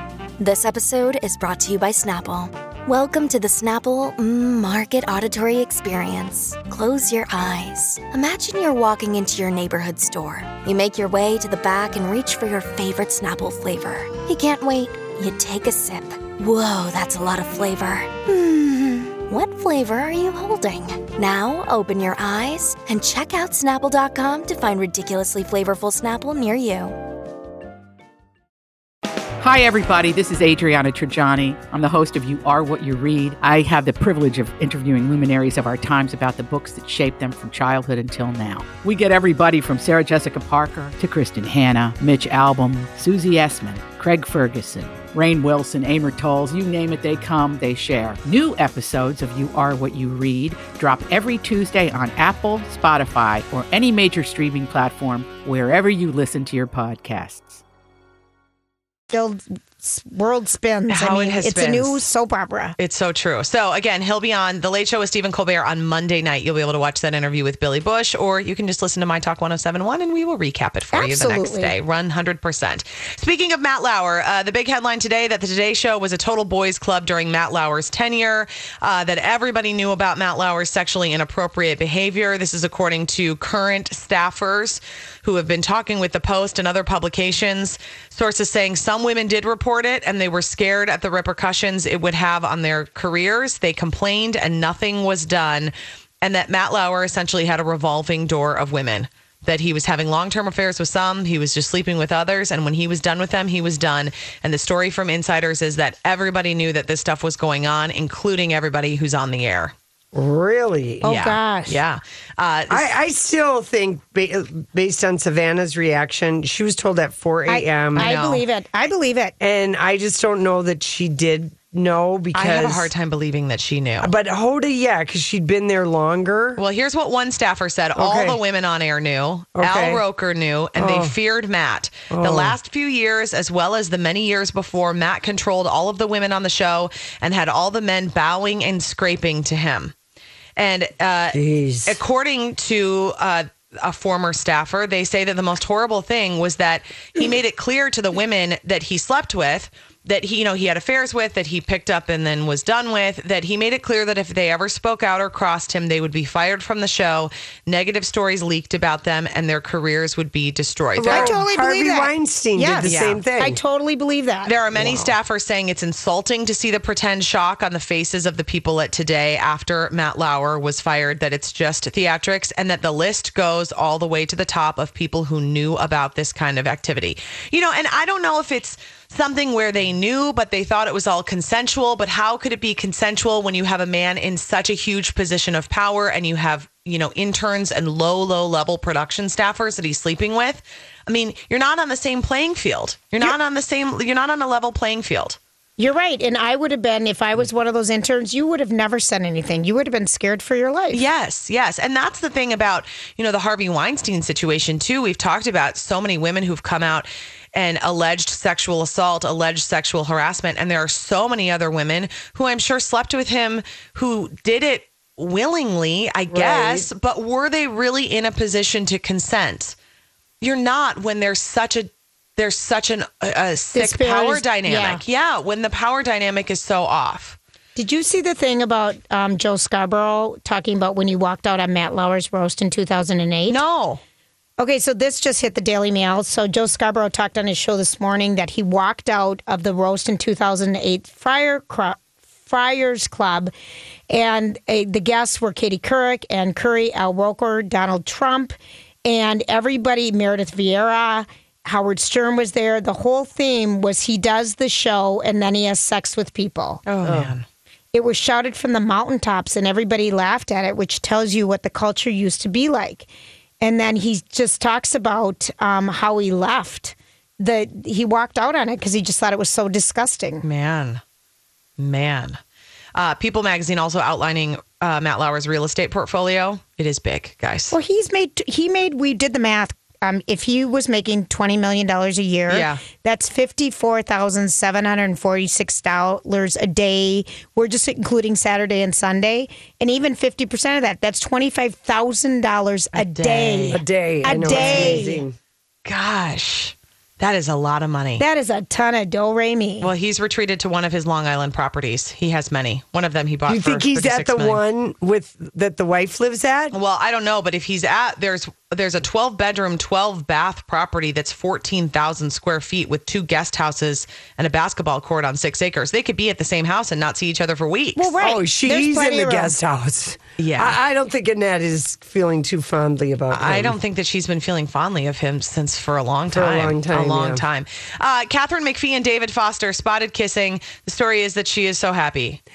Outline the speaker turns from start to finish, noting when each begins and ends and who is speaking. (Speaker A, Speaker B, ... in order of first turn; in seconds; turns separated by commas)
Speaker A: 0.4-27.0, Speaker B: 29.4-57.6, Speaker C: 59.1-62.7, Speaker D: 60.9-62.1, Speaker D: 62.8-109.8, Speaker C: 70.9-71.7, Speaker E: 110.1-111.1, Speaker C: 111.0-111.8, Speaker D: 111.0-113.0, Speaker E: 112.7-118.1, Speaker C: 117.5-119.3, Speaker D: 118.0-118.5, Speaker E: 119.4-122.9, Speaker D: 122.3-124.1, Speaker E: 124.0-126.6, Speaker D: 126.6-139.9, Speaker E: 128.0-128.4, Speaker E: 129.6-130.0, Speaker E: 130.8-131.2, Speaker E: 132.1-132.6, Speaker D: 140.6-161.4, Speaker E: 141.3-142.0, Speaker E: 161.0-163.6, Speaker C: 161.1-164.5, Speaker D: 162.8-163.2, Speaker D: 164.4-195.4, Speaker E: 164.8-165.1, Speaker C: 195.8-201.0, Speaker D: 200.9-219.8, Speaker E: 216.3-216.9, Speaker D: 220.4-227.4, Speaker C: 223.7-225.0, Speaker C: 227.8-233.6, Speaker D: 233.5-234.0, Speaker C: 234.6-243.5, Speaker C: 244.1-256.8, Speaker D: 256.9-257.4, Speaker C: 257.9-263.1, Speaker C: 263.6-270.4, Speaker D: 270.4-271.0, Speaker D: 271.8-272.4, Speaker D: 272.9-277.7, Speaker C: 277.7-295.2, Speaker D: 282.5-282.8, Speaker D: 292.9-293.8, Speaker E: 293.7-295.4, Speaker D: 294.4-295.1, Speaker D: 295.9-298.2, Speaker C: 298.2-299.9, Speaker D: 299.8-304.6, Speaker E: 303.5-306.7, Speaker D: 306.7-318.1, Speaker C: 318.0-319.6, Speaker E: 318.2-323.8, Speaker D: 320.4-320.8, Speaker D: 323.3-332.4, Speaker E: 326.3-327.4